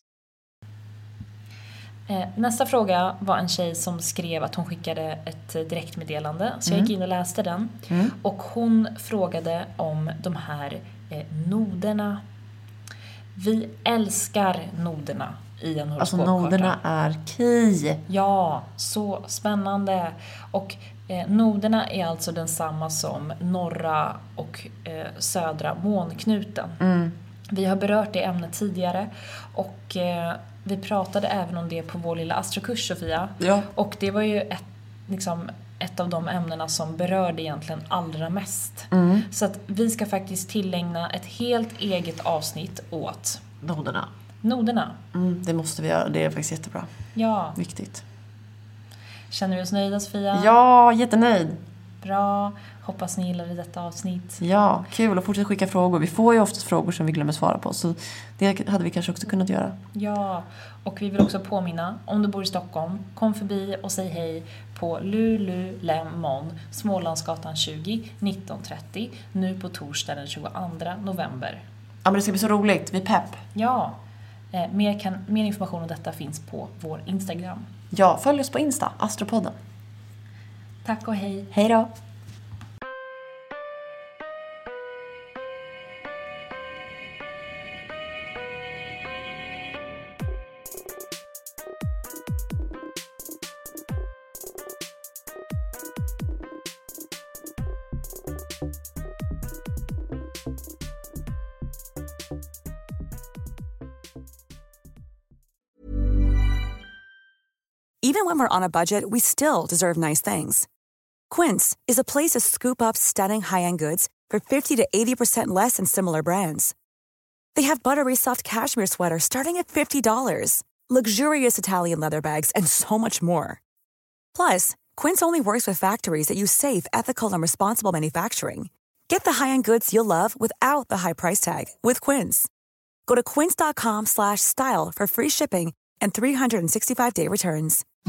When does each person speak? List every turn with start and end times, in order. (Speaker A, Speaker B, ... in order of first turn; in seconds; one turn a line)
Speaker A: 2.1-12.2
Speaker B: 7.9-8.1
Speaker A: 13.3-16.8
Speaker B: 16.0-18.0
Speaker A: 18.1-26.8
Speaker B: 26.8-27.1
Speaker A: 27.5-43.4
Speaker B: 33.4-33.7
Speaker B: 38.9-39.3
Speaker B: 43.6-44.1
Speaker A: 44.4-45.0
Speaker B: 45.1-46.9
Speaker A: 47.1-47.6
Speaker B: 47.5-48.0
Speaker A: 49.3-50.6
Speaker B: 50.3-51.6
Speaker A: 52.0-54.4
Speaker B: 54.4-59.8
Speaker A: 59.9-71.7
Speaker B: 72.0-73.4
Speaker A: 73.5-74.0
Speaker A: 74.5-77.7
Speaker B: 77.9-79.6
Speaker A: 80.8-81.5
Speaker B: 81.5-81.9
Speaker C: 108.0-110.7
Speaker C: 111.3-116.7
Speaker C: 117.5-123.6
Speaker C: 124.3-132.5
Speaker C: 133.1-137.8